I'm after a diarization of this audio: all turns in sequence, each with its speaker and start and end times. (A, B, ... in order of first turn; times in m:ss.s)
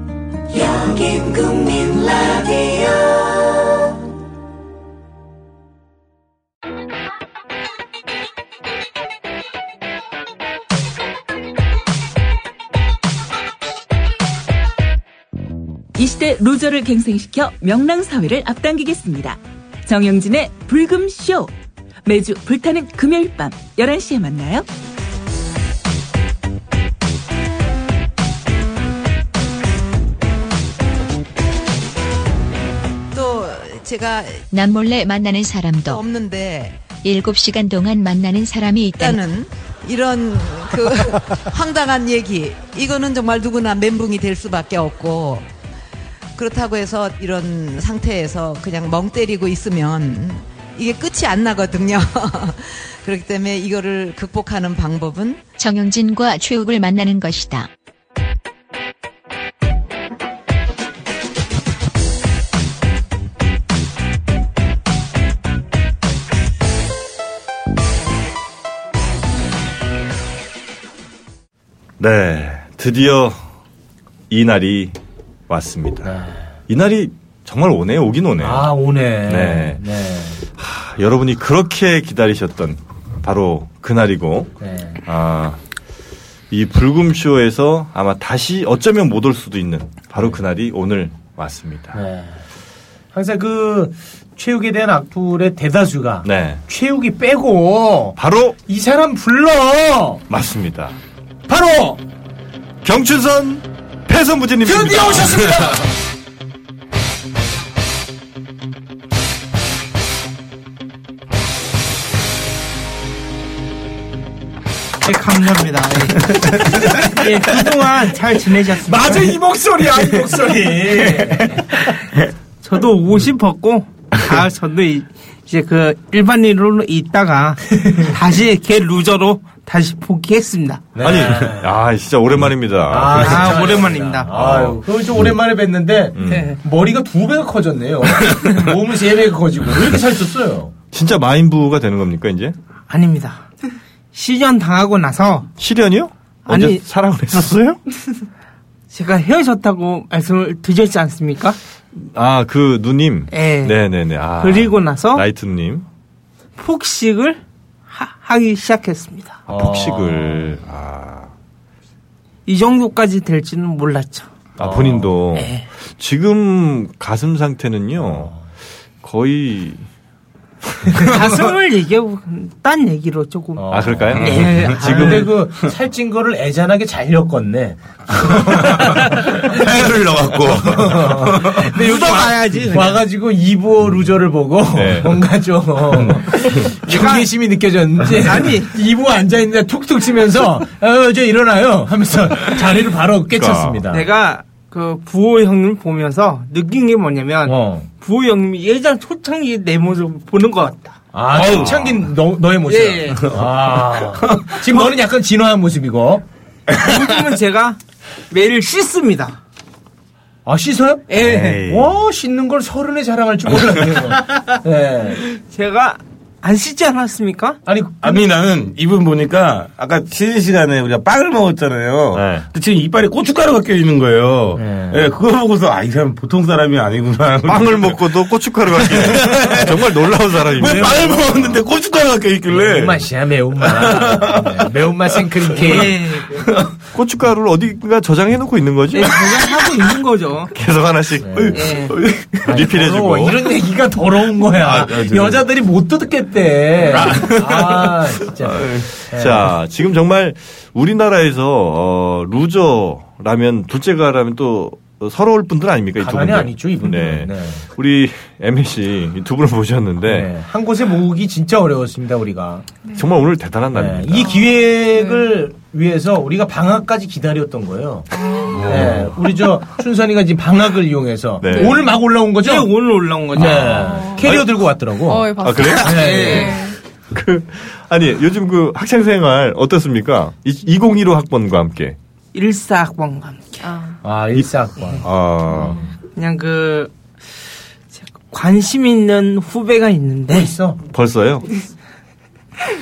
0:00.5-0:03.8 A
0:16.0-0:21.5 A
0:22.0-0:24.7 A
0:33.1-0:34.4 B
0:34.5-0:36.0 C
0:35.8-0:36.8 B
0:37.0-0:39.2 C
0:39.0-0:45.4 B
0:46.4-0:55.5 B
0:55.6-0:57.7 C
1:12.0-1:13.4 D
1:14.3-1:14.9 D
1:15.5-1:16.2 D
1:16.0-1:16.4 E
1:16.7-1:18.7 D
1:18.4-1:20.4 E
1:19.2-1:19.8 D
1:20.5-1:24.5 D
1:24.6-1:25.0 E
1:25.0-1:25.6 D
1:26.5-1:32.0 D
1:31.9-1:32.4 E
1:33.1-1:40.2 E
1:36.2-1:36.6 D
1:38.2-1:38.6 D
1:40.3-1:41.0 D
1:41.5-1:42.0 E
1:42.8-1:45.5 D
1:44.6-1:45.8 E
1:55.0-1:59.4 F
1:58.8-2:01.7 E
2:02.6-2:10.9 F
2:07.8-2:08.1 E
2:10.9-2:11.7 E
2:11.0-2:13.7 D
2:12.9-2:20.7 E
2:13.2-2:14.3 F
2:14.3-2:14.8 D
2:16.2-2:16.5 D
2:16.3-2:16.6 F
2:20.9-2:22.5 D
2:22.9-2:23.4 F
2:24.1-2:25.5 F
2:25.6-2:27.8 D
2:26.5-2:26.8 F
2:28.9-2:31.6 F
2:31.9-2:35.9 D
2:33.3-2:33.8 F
2:34.4-2:35.2 F
2:36.6-2:39.4 F
2:39.5-2:41.3 D
2:39.5-2:40.6 E
2:42.5-2:44.3 F
2:44.6-2:48.3 D
2:44.6-2:45.1 E
2:45.3-2:45.6 F
2:48.0-2:48.4 E
2:49.0-2:49.8 D
2:51.0-2:55.3 F
2:53.6-2:59.6 E
2:53.7-2:55.2 D
2:59.4-3:01.6 G
3:00.4-3:14.0 E
3:01.6-3:03.0 F
3:04.7-3:05.2 D
3:06.8-3:07.3 F
3:08.1-3:08.7 F
3:13.3-3:13.8 D
3:13.9-3:21.0 F
3:17.4-3:17.9 E
3:21.1-3:26.2 E
3:21.3-3:22.0 G
3:22.7-3:23.3 F
3:26.8-3:27.8 F
3:28.3-3:29.4 F
3:30.4-3:35.2 E
3:31.1-3:31.6 F
3:31.3-3:31.8 G
3:35.2-3:37.6 F
3:37.6-3:38.2 E
3:38.0-3:48.0 G
3:42.1-3:42.5 D
3:44.6-3:45.1 E
3:47.4-3:51.6 D
3:48.8-3:49.9 G
3:50.4-3:53.0 G
3:50.6-3:51.2 E
3:52.5-3:56.0 E
3:53.7-3:54.6 G
3:55.6-3:56.4 F
3:56.9-3:59.4 D
3:58.9-4:00.5 F
4:00.5-4:01.8 D
4:01.2-4:01.6 E
4:01.4-4:02.3 G
4:01.6-4:01.9 F
4:02.4-4:09.5 E
4:02.4-4:03.4 D
4:04.6-4:05.4 G
4:07.0-4:07.6 G
4:08.4-4:20.3 D
4:16.0-4:17.6 E
4:20.0-4:22.6 E
4:22.9-4:24.4 D
4:23.7-4:28.1 E
4:24.3-4:25.3 H
4:28.1-4:28.8 H
4:28.5-4:29.2 G
4:28.6-4:32.7 E
4:31.4-4:31.8 D
4:31.4-4:31.8 H
4:32.4-4:34.0 F
4:33.3-4:36.5 E
4:33.3-4:34.6 D
4:33.8-4:34.4 H
4:35.0-4:36.8 H
4:35.4-4:36.3 D
4:35.8-4:36.6 F
4:37.1-4:42.0 D
4:42.3-4:43.6 F
4:43.6-4:44.0 H
4:44.0-4:45.0 E
4:45.0-4:45.8 D
4:46.1-4:46.9 F
4:48.2-4:50.5 F
4:50.3-4:50.8 E
4:50.9-4:51.5 D